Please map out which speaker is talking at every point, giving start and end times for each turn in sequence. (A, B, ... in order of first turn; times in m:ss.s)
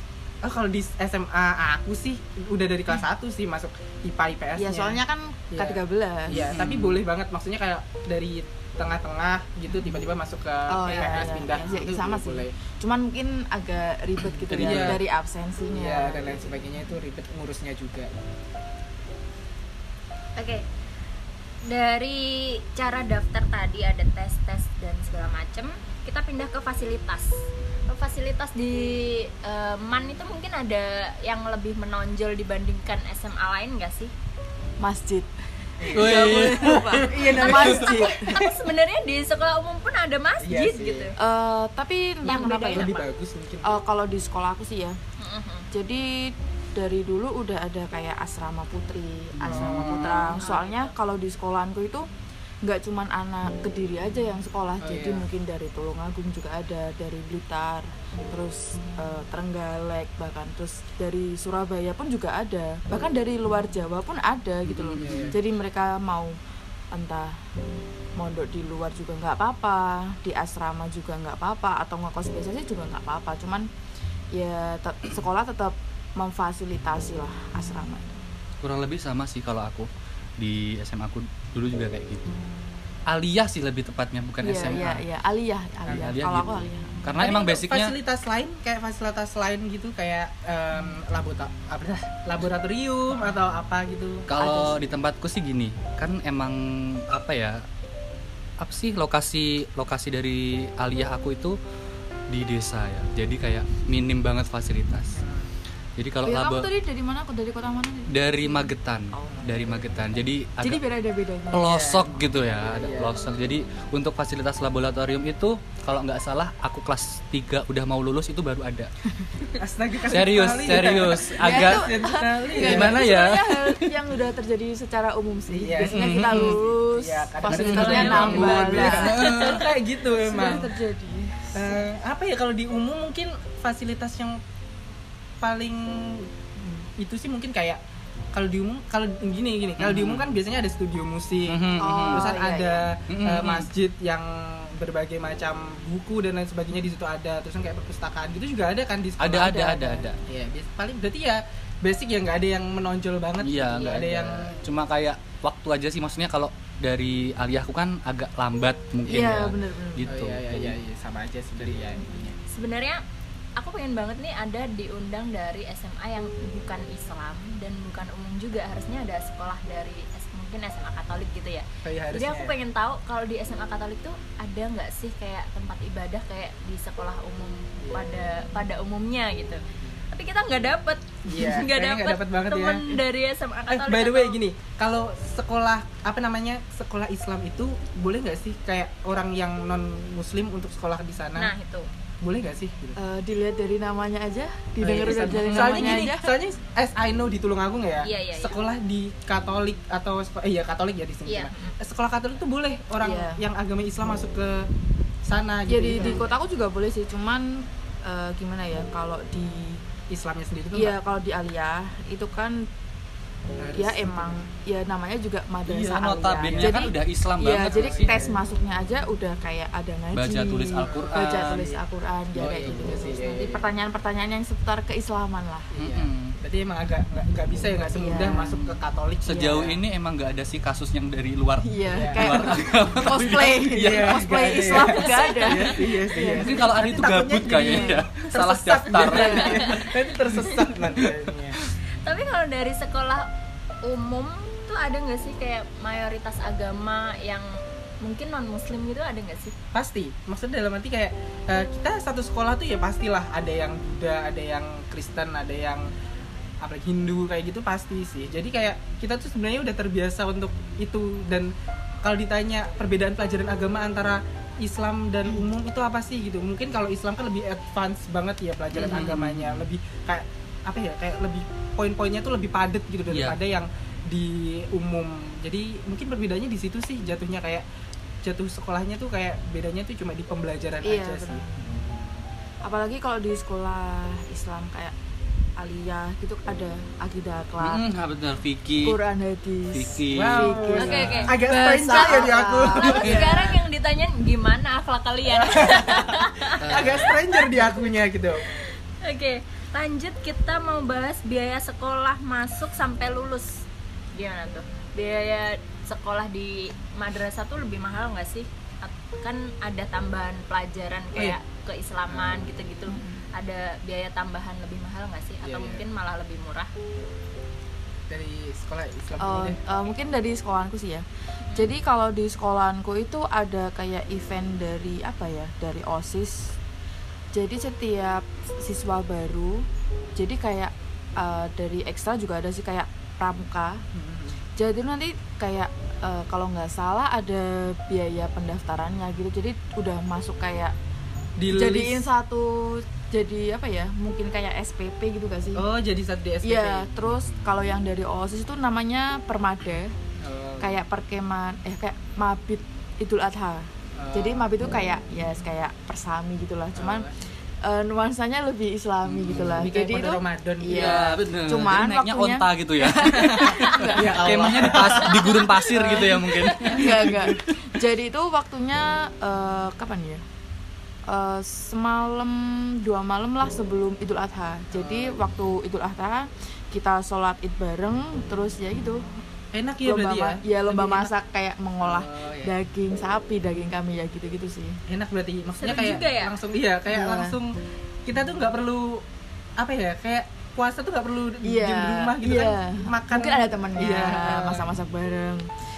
0:00.4-0:05.0 A
0:04.6-0:06.5 B
0:05.5-0:12.5 A
0:06.3-0:07.0 C
0:10.7-0:16.5 B
0:14.2-0:15.0 C
0:14.6-0:15.0 A
0:15.7-0:18.1 A
0:20.4-0:20.6 D
0:21.6-0:27.4 D
0:27.9-0:34.1 D
0:34.8-0:38.4 B
0:35.8-0:38.6 A
0:35.9-0:37.8 C
0:38.1-0:41.1 D
0:40.4-0:41.1 A
0:41.2-0:43.0 B
0:42.2-0:43.1 D
0:42.3-0:43.7 A
0:43.6-0:45.0 B
0:45.2-0:45.7 D
0:45.7-0:52.1 B
0:49.4-0:50.2 C
0:49.5-0:50.4 A
0:50.4-0:50.9 D
0:52.6-1:06.4 B
0:54.8-0:55.3 A
1:04.7-1:05.4 C
1:05.0-1:05.4 A
1:06.9-1:07.4 B
1:08.2-1:13.7 B
1:14.3-1:18.2 B
1:18.6-1:22.3 C
1:23.1-1:25.0 C
1:24.4-1:27.0 B
1:25.9-1:28.0 C
1:27.2-1:34.3 A
1:34.3-1:37.6 C
1:34.4-1:34.8 B
1:38.6-1:41.6 C
1:42.3-1:45.2 C
1:45.2-1:45.5 A
1:46.0-1:46.7 C
1:46.2-1:49.8 B
1:48.1-1:50.8 C
1:49.3-1:49.7 A
1:50.6-1:51.8 B
1:51.5-1:58.9 C
1:51.6-1:53.2 A
1:59.6-2:03.1 A
2:00.1-2:04.0 C
2:00.6-2:09.4 B
2:05.5-2:10.7 A
2:05.9-2:06.6 C
2:07.5-2:09.6 C
2:07.8-2:09.7 D
2:10.2-2:11.8 B
2:11.5-2:14.4 A
2:15.4-2:17.8 A
2:18.3-2:29.7 A
2:19.8-2:20.4 C
2:21.5-2:22.3 C
2:21.8-2:22.9 B
2:23.1-2:23.7 C
2:29.2-2:30.2 C
2:29.4-2:30.1 B
2:30.2-2:34.6 A
2:33.4-2:40.8 C
2:39.1-2:40.1 B
2:40.1-2:42.4 A
2:42.5-2:43.0 D
2:43.6-3:04.4 D
2:51.8-2:52.5 A
3:01.3-3:03.0 A
3:03.7-3:11.5 A
3:11.4-3:11.9 D
3:12.2-3:13.0 A
3:13.0-3:16.3 B
3:14.8-3:24.7 A
3:18.0-3:18.6 D
3:21.3-3:21.8 D
3:23.0-3:23.4 B
3:25.2-3:26.2 A
3:25.7-3:29.8 B
3:26.0-3:26.2 D
3:30.1-3:31.0 A
3:30.7-3:32.6 B
3:33.6-3:34.4 A
3:33.8-3:45.7 B
3:35.7-3:38.2 C
3:37.7-3:38.4 A
3:40.1-3:41.7 C
3:40.8-3:41.8 A
3:42.4-3:42.8 C
3:42.4-3:43.6 A
3:45.7-3:49.8 A
3:45.8-3:46.4 C
3:47.9-3:48.6 B
3:48.4-3:48.7 C
3:49.2-3:54.3 C
3:49.4-3:49.7 B
3:51.6-3:56.5 B
3:51.9-3:52.5 A
3:53.7-4:01.6 A
3:55.4-3:55.6 D
3:56.3-3:59.8 C
3:57.4-3:58.0 B
3:59.0-3:59.7 B
3:59.4-3:59.8 D
4:02.0-4:03.3 D
4:03.8-4:09.6 D
4:09.7-4:15.9 A
4:16.6-4:37.6 A
4:28.7-4:29.7 C
4:33.1-4:33.4 C
4:38.2-4:41.4 A
4:40.8-4:41.7 B
4:41.7-4:42.0 C
4:42.6-4:45.0 B
4:45.6-4:47.9 B
4:47.6-4:49.0 C
4:48.8-4:51.4 B
4:49.7-4:51.3 C
4:50.1-4:53.3 A
4:50.8-5:16.7 D
4:52.0-4:53.6 B
4:55.3-4:58.5 A
4:56.6-4:57.1 C
5:12.1-5:12.5 A
5:12.9-5:13.2 B
5:15.4-5:15.8 A
5:18.1-5:19.6 A
5:19.2-5:26.6 B
5:27.3-5:33.8 B
5:33.9-5:34.4 A
5:34.6-5:40.7 B
5:41.4-5:42.0 A
5:41.5-5:45.6 B
5:45.6-5:46.9 A
5:46.4-5:49.9 B
5:47.0-5:47.6 C
5:50.2-5:50.8 A
5:50.6-5:57.1 B
5:54.0-5:54.5 A
5:56.8-5:57.1 A
5:57.6-6:10.2 B
5:59.0-5:59.7 C
5:59.3-6:01.1 A
6:00.7-6:07.6 C
6:03.1-6:05.4 A
6:06.4-6:06.7 D
6:11.1-6:19.0 B
6:14.7-6:15.2 A
6:19.5-6:21.1 A
6:19.8-6:24.8 B
6:21.8-6:22.5 A
6:24.9-6:29.0 A
6:25.6-6:26.4 D
6:26.9-6:27.4 B
6:29.6-6:34.7 A
6:31.4-6:35.5 B